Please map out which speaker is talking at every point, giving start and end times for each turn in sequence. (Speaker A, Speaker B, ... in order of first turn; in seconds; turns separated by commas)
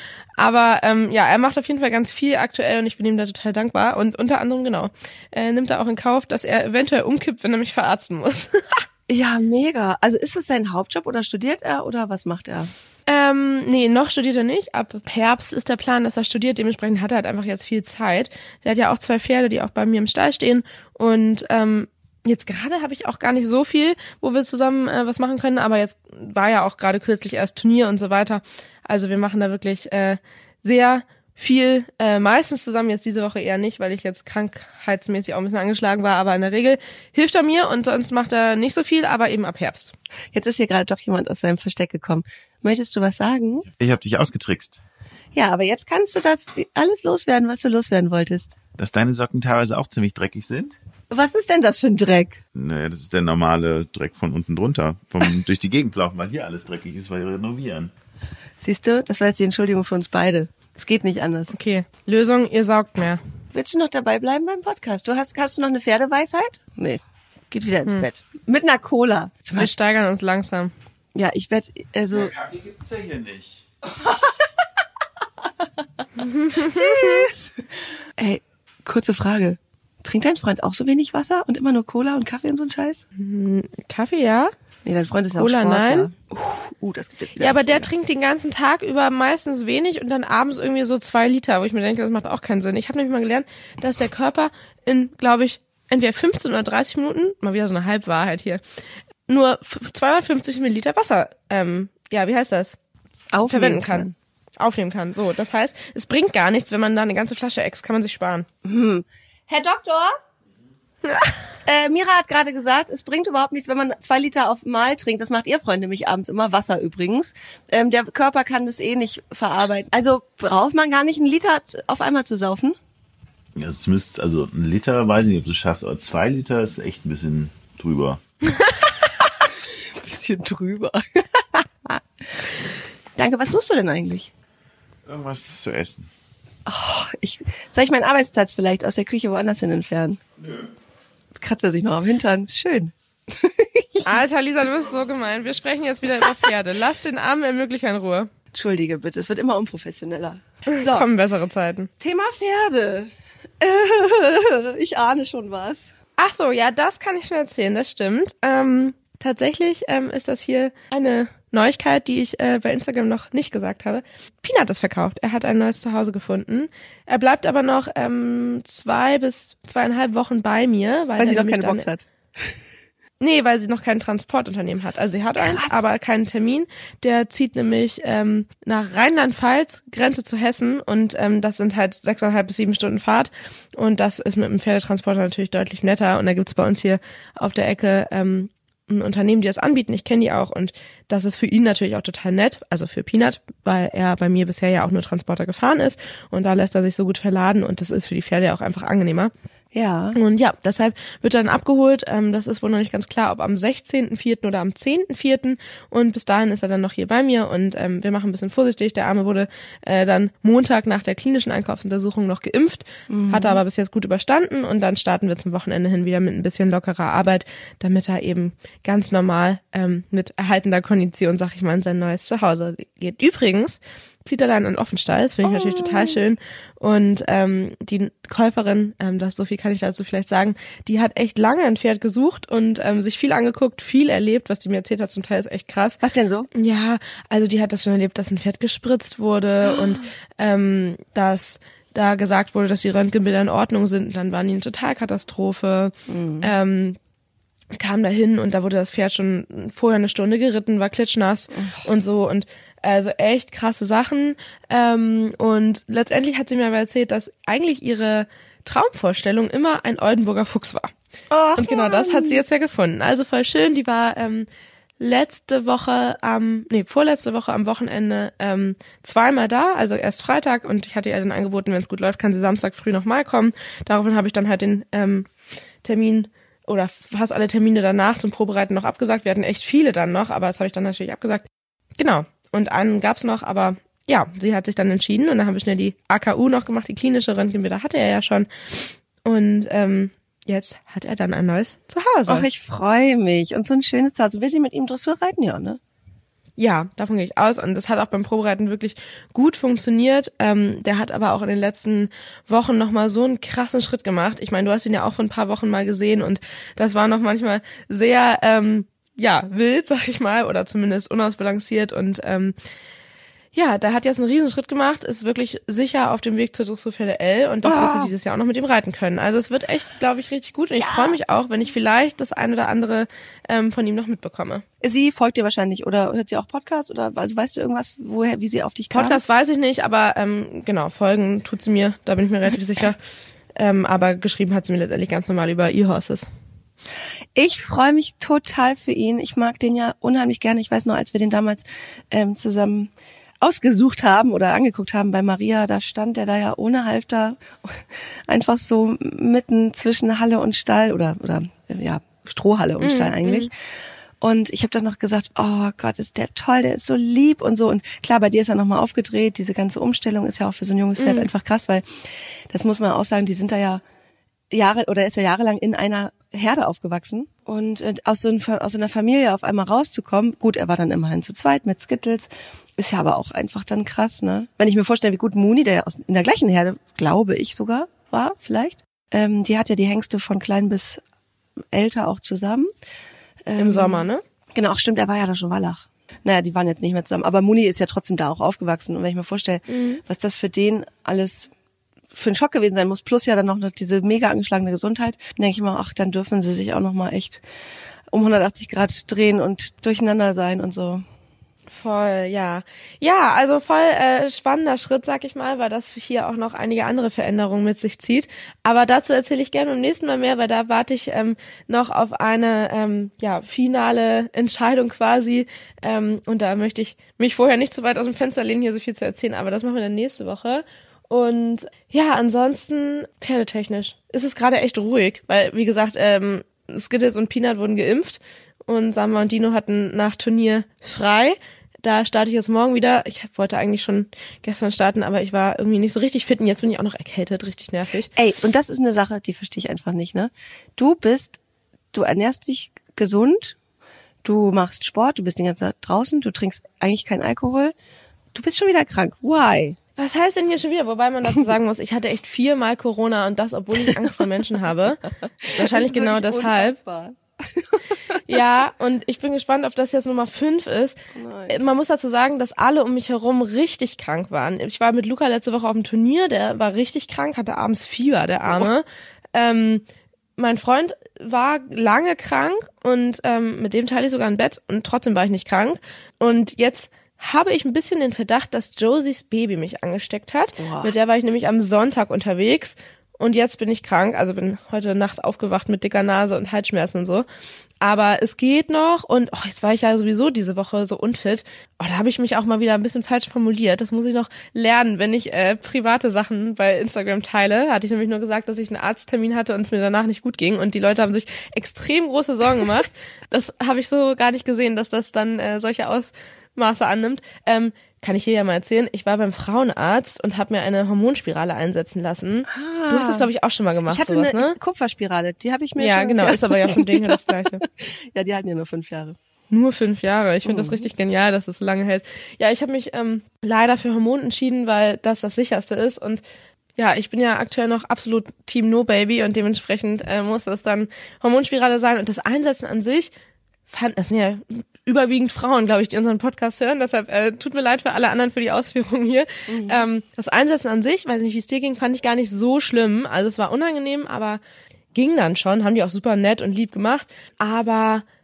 Speaker A: 0.4-8.8, Speaker B: 9.1-12.7, Speaker A: 13.1-39.9, Speaker B: 40.3-43.6, Speaker C: 43.7-44.8, Speaker B: 45.3-48.5, Speaker C: 48.8-50.7, Speaker B: 51.1-52.4, Speaker C: 52.5-57.9, Speaker B: 58.6-61.5, Speaker A: 61.5-63.2, Speaker B: 63.5-67.0, Speaker B: 67.5-69.7, Speaker A: 69.5-70.7, Speaker B: 71.1-72.3, Speaker C: 72.1-73.6, Speaker A: 76.2-77.3, Speaker B: 76.5-77.6, Speaker B: 78.2-83.0, Speaker A: 83.2-84.5, Speaker B: 84.8-87.9, Speaker A: 85.3-86.1, Speaker A: 87.4-98.6, Speaker A: 99.3-102.8, Speaker B: 103.3-104.1, Speaker A: 103.5-108.5, Speaker B: 108.6-110.2, Speaker A: 111.0-111.3, Speaker B: 111.7-122.8, Speaker C: 123.5-128.2, Speaker B: 129.0-132.5, Speaker B: 133.2-134.3, Speaker C: 135.1-136.1, Speaker B: 136.7-140.2, Speaker B: 141.3-144.2, Speaker A: 144.1-148.3, Speaker B: 148.5-151.1, Speaker A: 150.7-151.9, Speaker B: 152.0-155.9, Speaker A: 156.2-171.8, Speaker B: 171.2-172.5, Speaker A: 173.2-199.3, Speaker B: 175.4-175.8, Speaker B: 199.7-200.2, Speaker A: 200.2-236.0, Speaker B: 213.1-213.6, Speaker B: 225.5-226.2, Speaker B: 236.0-236.5, Speaker A: 236.5-247.0, Speaker B: 246.1-246.5, Speaker A: 247.7-260.9, Speaker B: 251.5-251.8, Speaker B: 261.3-262.4, Speaker A: 261.6-264.5, Speaker A: 265.0-275.3, Speaker A: 275.8-281.4, Speaker A: 282.0-292.4, Speaker B: 292.3-295.8, Speaker A: 296.6-312.5, Speaker A: 313.5-324.6, Speaker B: 317.6-318.1, Speaker B: 320.8-321.2, Speaker B: 324.8-329.2, Speaker A: 328.9-333.0, Speaker A: 333.6-336.3, Speaker B: 337.3-342.9, Speaker B: 343.4-353.5, Speaker A: 352.8-353.5, Speaker B: 354.2-363.8, Speaker A: 361.0-361.3, Speaker B: 364.5-381.0, Speaker B: 381.7-382.7, Speaker B: 383.4-391.5, Speaker A: 383.6-384.2, Speaker A: 389.7-390.0, Speaker B: 392.1-397.4, Speaker B: 398.1-401.0, Speaker A: 401.7-438.1, Speaker B: 438.1-441.4, Speaker B: 441.9-443.6, Speaker B: 444.2-447.7, Speaker B: 448.3-449.8, Speaker A: 450.0-455.0, Speaker B: 455.4-458.2, Speaker A: 455.5-456.8, Speaker A: 458.3-461.0, Speaker B: 461.1-461.5, Speaker A: 461.5-469.8, Speaker A: 470.4-487.2, Speaker B: 480.6-480.9, Speaker A: 487.8-514.6, Speaker B: 512.5-513.3, Speaker B: 513.9-519.1, Speaker A: 515.8-517.6, Speaker A: 519.5-526.2, Speaker B: 520.4-520.9, Speaker A: 526.8-533.1, Speaker A: 533.7-544.4, Speaker B: 539.5-539.8, Speaker A: 544.9-548.0